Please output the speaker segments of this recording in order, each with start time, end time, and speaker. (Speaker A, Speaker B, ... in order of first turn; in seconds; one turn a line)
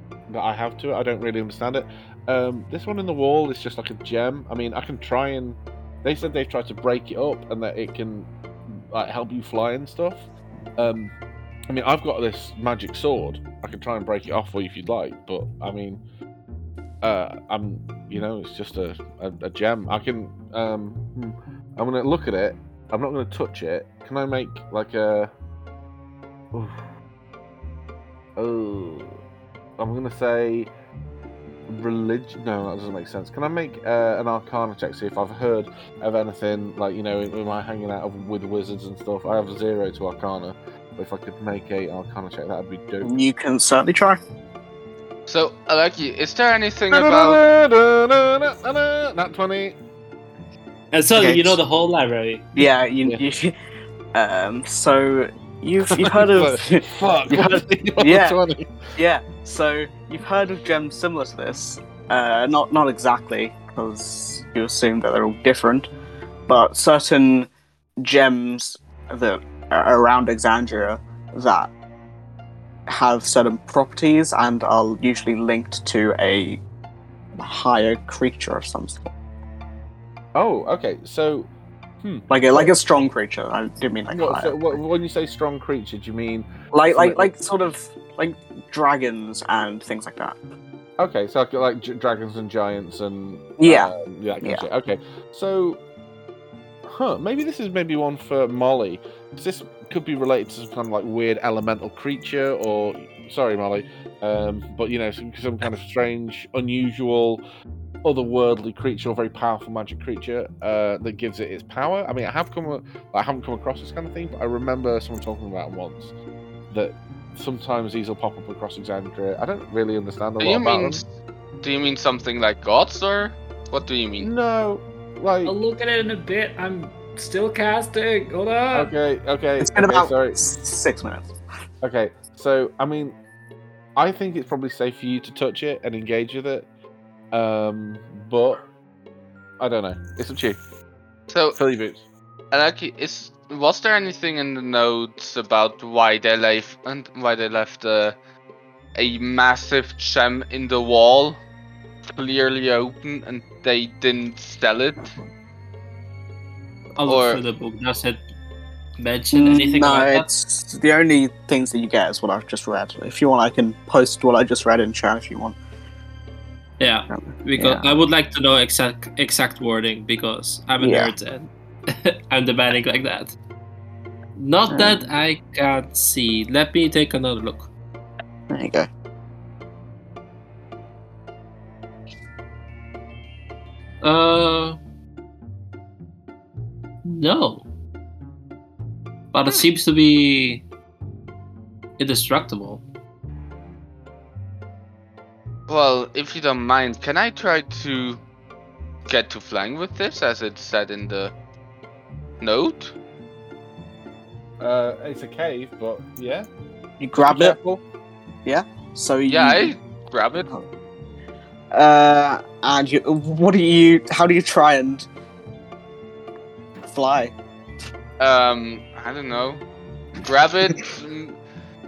Speaker A: 0.3-10.2
Speaker A: 10.8-11.1
Speaker A: 11.7-16.0
Speaker A: 17.0-25.3
Speaker A: 26.5-26.8
Speaker A: 28.4-29.1
Speaker A: 29.8-30.7
Speaker A: 31.7-43.1
Speaker B: 43.0-44.2
Speaker C: 45.3-47.4
Speaker A: 46.9-49.8
Speaker D: 50.9-52.7
Speaker B: 51.1-51.6
Speaker B: 52.6-53.5
Speaker B: 54.1-58.4
Speaker A: 55.9-58.9
Speaker B: 59.0-65.9
Speaker B: 66.5-71.7
Speaker B: 72.9-76.6
Speaker B: 77.4-79.1
Speaker A: 80.3-81.5
Speaker A: 82.0-82.7
Speaker B: 82.3-84.8
Speaker A: 84.1-87.3
Speaker B: 86.7-90.4
Speaker A: 91.0-95.8
Speaker B: 93.6-93.9
Speaker A: 96.9-107.4
Speaker A: 108.0-116.1
Speaker A: 116.7-121.0
Speaker C: 120.4-121.1
Speaker C: 121.6-124.3
Speaker A: 124.2-125.6
Speaker E: 125.4-128.9
Speaker A: 128.7-130.4
Speaker B: 129.6-131.3
Speaker A: 131.8-133.2
Speaker A: 134.0-136.7
Speaker A: 137.3-138.7
Speaker A: 139.6-140.6
Speaker C: 141.3-141.6
Speaker A: 141.6-142.0
Speaker C: 142.5-148.2
Speaker C: 148.9-151.4
Speaker C: 152.2-155.1
Speaker D: 157.0-158.2
Speaker C: 157.0-157.4
Speaker D: 159.0-160.3
Speaker B: 159.3-165.6
Speaker D: 166.8-173.3
Speaker B: 167.1-168.0
Speaker B: 170.8-171.1
Speaker D: 174.4-177.7
Speaker B: 174.7-175.1
Speaker B: 178.5-178.9
Speaker D: 184.0-184.8
Speaker D: 187.1-187.7
Speaker D: 189.3-190.6
Speaker D: 192.0-192.8
Speaker C: 195.7-198.2
Speaker C: 199.1-201.3
Speaker C: 202.4-202.9
Speaker A: 204.6-206.5
Speaker B: 207.0-207.8
Speaker A: 207.2-207.6
Speaker B: 208.5-209.8
Speaker C: 209.3-210.5
Speaker B: 210.4-210.7
Speaker B: 211.7-215.1
Speaker B: 216.9-217.3
Speaker C: 218.2-219.6
Speaker C: 220.2-221.4